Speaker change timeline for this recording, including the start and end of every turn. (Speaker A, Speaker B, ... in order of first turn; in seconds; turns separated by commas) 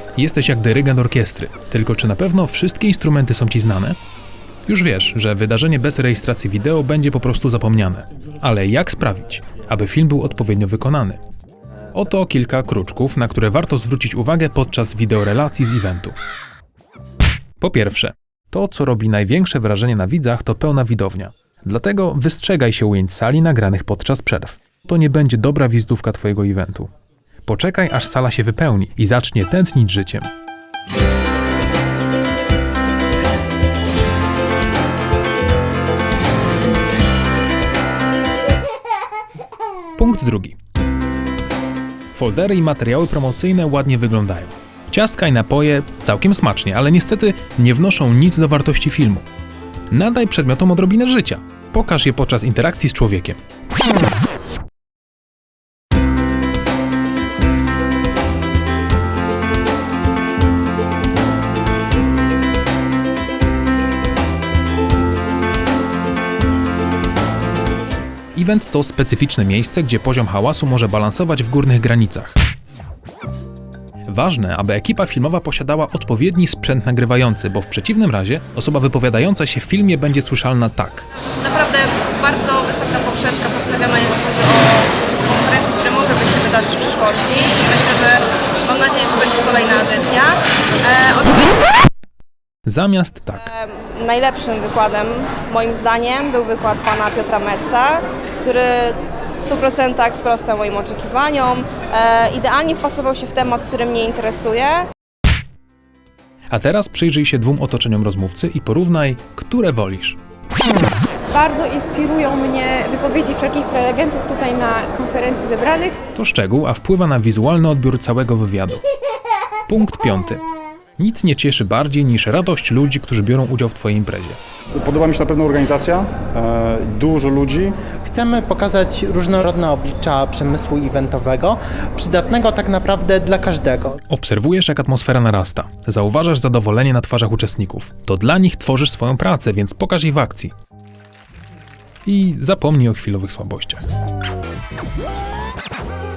Speaker A: 0.1-4.0, Speaker A: 4.7-11.2, Speaker A: 11.9-16.1, Speaker A: 17.6-26.9, Speaker A: 27.4-30.3, Speaker A: 40.0-40.6, Speaker A: 42.1-49.2, Speaker A: 49.9-53.4, Speaker A: 68.3-72.4, Speaker A: 74.1-81.1, Speaker B: 81.4-91.7, Speaker A: 92.7-93.5, Speaker B: 93.5-104.9, Speaker A: 106.5-110.2, Speaker C: 111.3-116.0, Speaker A: 116.1-118.8, Speaker A: 119.7-120.4, Speaker A: 121.0-124.4, Speaker D: 124.7-127.8, Speaker E: 128.0-134.0, Speaker A: 134.1-140.5, Speaker A: 142.1-143.8